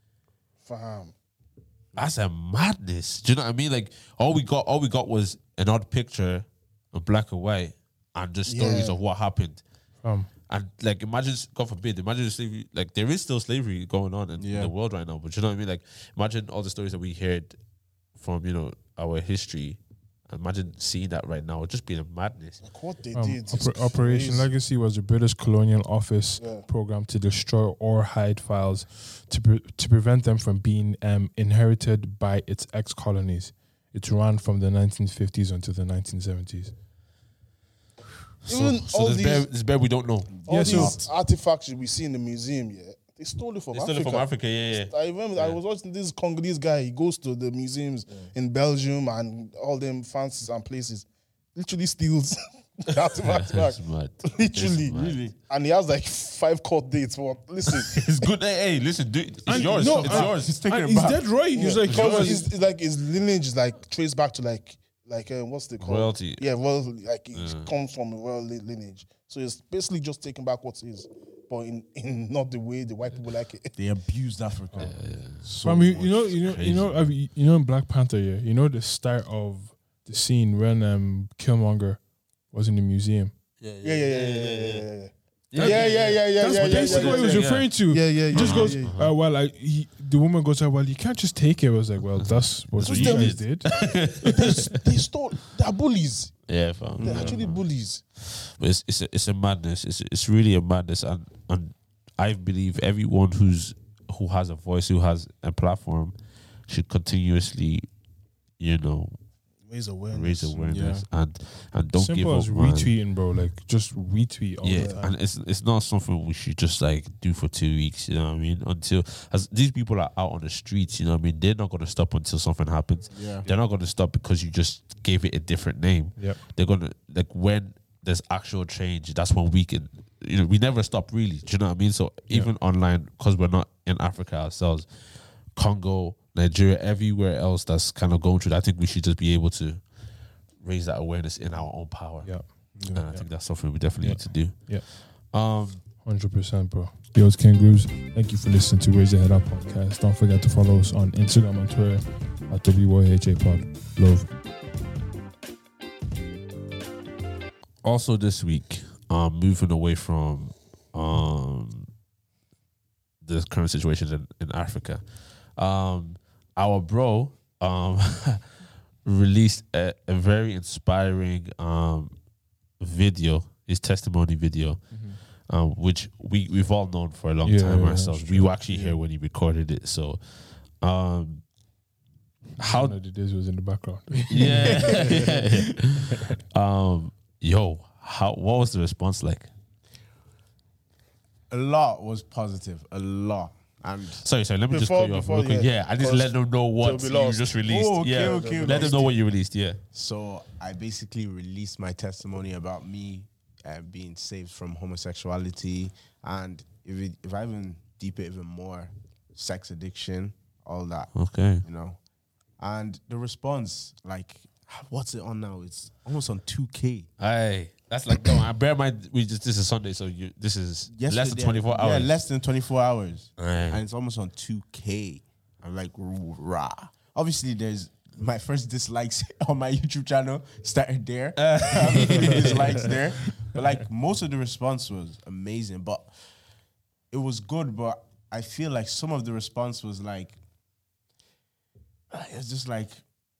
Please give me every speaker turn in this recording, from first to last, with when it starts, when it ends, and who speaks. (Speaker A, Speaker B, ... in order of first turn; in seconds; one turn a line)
Speaker A: 0.6-1.1
Speaker B: 1.9-9.6
Speaker A: 8.4-9.0
Speaker C: 10.0-10.3
Speaker B: 10.5-17.6
Speaker D: 14.4-14.7
Speaker B: 18.2-22.6
Speaker A: 22.6-24.5
Speaker C: 23.1-36.7
Speaker A: 26.4-26.6
Speaker B: 38.4-40.4
Speaker A: 38.5-39.5
Speaker D: 40.3-41.0
Speaker A: 40.5-54.9
Speaker C: 40.5-41.0
Speaker B: 43.7-45.6
Speaker B: 52.9-55.2
Speaker D: 54.9-55.3
Speaker A: 55.5-58.3
Speaker B: 57.7-60.5
Speaker C: 59.5-62.5
Speaker D: 59.5-61.2
Speaker A: 61.5-73.7
Speaker B: 61.9-62.4
Speaker B: 65.8-66.4
Speaker B: 67.3-67.7
Speaker D: 73.8-76.8
Speaker B: 74.8-75.4
Speaker C: 75.6-83.3
Speaker B: 76.4-76.9
Speaker B: 83.6-84.8
Speaker A: 83.8-88.9
Speaker B: 85.5-87.7
Speaker C: 85.6-85.8
Speaker C: 86.4-93.7
Speaker B: 88.3-89.1
Speaker B: 92.2-94.8
Speaker A: 92.8-96.3
Speaker B: 96.5-97.6
Speaker D: 97.0-97.4
Speaker A: 97.0-98.0
Speaker B: 98.2-106.1
Speaker B: 106.7-107.9
Speaker B: 108.6-109.2
Speaker A: 109.7-110.8
Speaker B: 110.1-112.9
Speaker D: 110.6-111.0
Speaker C: 111.9-115.1
Speaker B: 114.6-134.9
Speaker A: 114.7-115.0
Speaker D: 123.1-123.5
Speaker B: 135.6-139.8
Speaker B: 140.6-142.3
Speaker C: 142.2-143.2
Speaker D: 142.8-143.0
Speaker B: 142.8-145.8
Speaker C: 144.0-144.8
Speaker C: 146.0-154.3
Speaker B: 157.8-161.9
Speaker B: 163.2-165.0
Speaker B: 165.6-168.4
Speaker B: 169.0-172.1
Speaker B: 172.8-174.8
Speaker C: 174.9-175.2
Speaker B: 175.5-180.2
Speaker C: 177.4-178.5
Speaker B: 180.8-181.4
Speaker B: 182.6-182.9
Speaker C: 182.6-185.3
Speaker B: 184.3-189.5
Speaker D: 184.5-185.7
Speaker D: 191.5-194.2
Speaker B: 194.2-199.8
Speaker A: 194.7-199.1
Speaker D: 197.7-199.1
Speaker D: 199.9-211.1
Speaker B: 211.1-211.6
Speaker D: 211.6-212.0
Speaker D: 212.6-217.1
Speaker B: 217.2-222.2
Speaker D: 220.9-236.1
Speaker B: 223.4-223.8
Speaker B: 231.3-233.0
Speaker D: 237.1-240.4
Speaker D: 242.1-243.0